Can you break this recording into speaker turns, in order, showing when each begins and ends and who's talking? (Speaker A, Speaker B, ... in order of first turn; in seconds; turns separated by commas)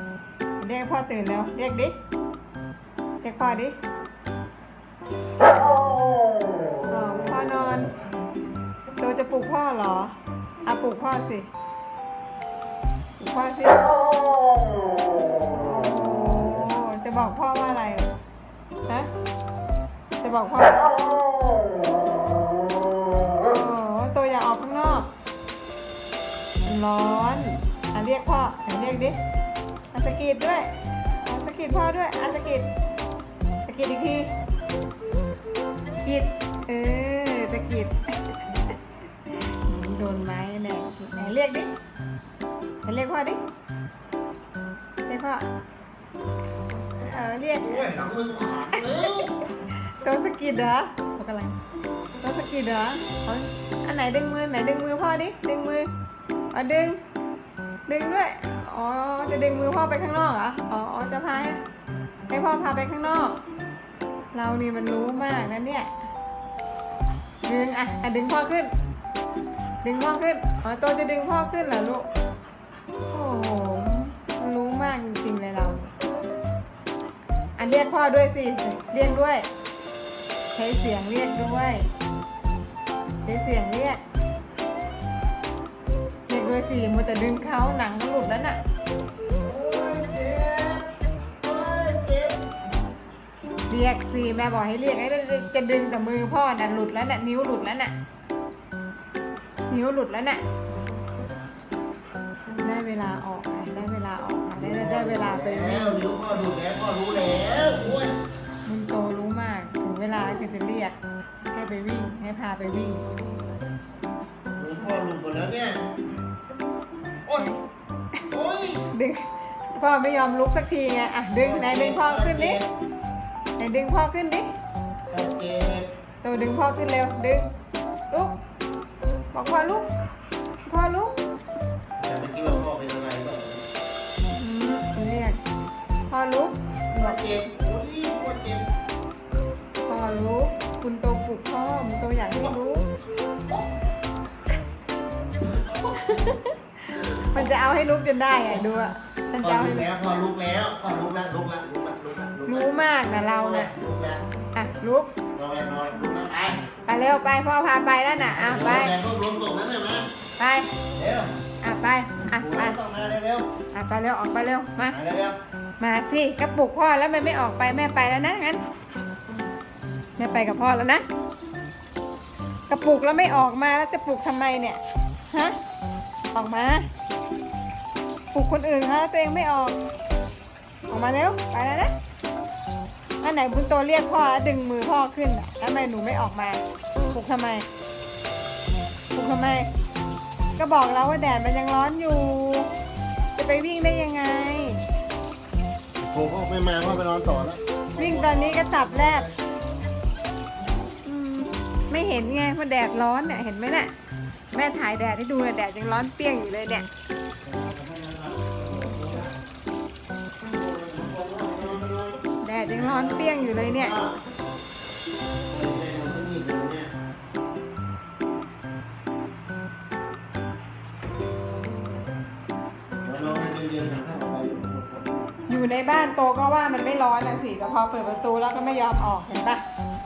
Speaker A: 0.6-1.9, Speaker A: 3.2-3.8, Speaker A: 6.9-7.9, Speaker A: 9.0-11.5, Speaker A: 13.2-13.9, Speaker A: 15.6-18.1, Speaker A: 20.2-21.0, Speaker A: 23.4-25.1, Speaker A: 26.7-29.2, Speaker A: 29.9-32.7, Speaker A: 33.7-34.3, Speaker A: 36.0-38.8, Speaker A: 39.3-41.7, Speaker A: 42.8-43.4, Speaker A: 45.1-45.5, Speaker A: 47.0-47.8, Speaker B: 47.6-49.3, Speaker A: 49.9-51.6, Speaker A: 52.2-55.9, Speaker A: 56.5-57.0, Speaker A: 57.9-61.6, Speaker A: 62.3-63.4, Speaker A: 64.3-65.9, Speaker A: 67.5-68.7, Speaker A: 69.8-72.1, Speaker A: 73.1-75.9, Speaker A: 77.6-79.5, Speaker A: 80.5-81.9, Speaker A: 83.2-84.0, Speaker A: 86.3-88.6, Speaker B: 89.4-90.9, Speaker B: 91.4-92.4, Speaker A: 93.7-97.9, Speaker A: 99.7-100.4, Speaker A: 102.6-106.0, Speaker B: 104.6-108.2, Speaker A: 108.7-111.0, Speaker A: 111.5-113.0, Speaker B: 114.6-115.8, Speaker B: 117.3-117.6, Speaker B: 118.3-118.8, Speaker A: 118.9-122.6, Speaker B: 121.3-122.7, Speaker A: 123.6-124.5, Speaker B: 125.1-125.9, Speaker A: 126.2-127.5, Speaker A: 128.1-128.3, Speaker A: 129.3-129.8, Speaker A: 130.7-131.2, Speaker B: 132.0-133.7, Speaker A: 134.3-135.4, Speaker A: 136.1-137.2, Speaker B: 136.9-138.7, Speaker A: 139.9-142.9, Speaker B: 145.4-146.0, Speaker A: 145.9-149.9, Speaker B: 146.9-147.5, Speaker B: 149.4-154.3, Speaker A: 152.5-153.7, Speaker A: 154.6-155.1, Speaker B: 155.3-156.6, Speaker A: 156.9-158.9, Speaker B: 158.3-160.1, Speaker A: 160.4-160.7, Speaker B: 161.0-161.3, Speaker A: 161.6-162.8, Speaker B: 162.3-163.5, Speaker A: 163.7-165.0, Speaker B: 164.9-165.4, Speaker A: 165.8-168.6, Speaker A: 170.2-171.0, Speaker A: 172.7-175.6, Speaker A: 176.3-176.9, Speaker A: 178.3-179.8, Speaker A: 180.9-181.9, Speaker A: 183.2-187.7, Speaker A: 189.1-189.7, Speaker A: 190.6-192.7, Speaker A: 193.4-194.8, Speaker B: 196.0-199.4, Speaker A: 198.0-199.3, Speaker A: 201.1-203.9, Speaker A: 204.5-206.9, Speaker B: 207.4-209.3, Speaker B: 210.4-214.2, Speaker A: 212.4-213.9, Speaker B: 215.5-216.9, Speaker B: 223.0-225.2, Speaker A: 225.5-229.6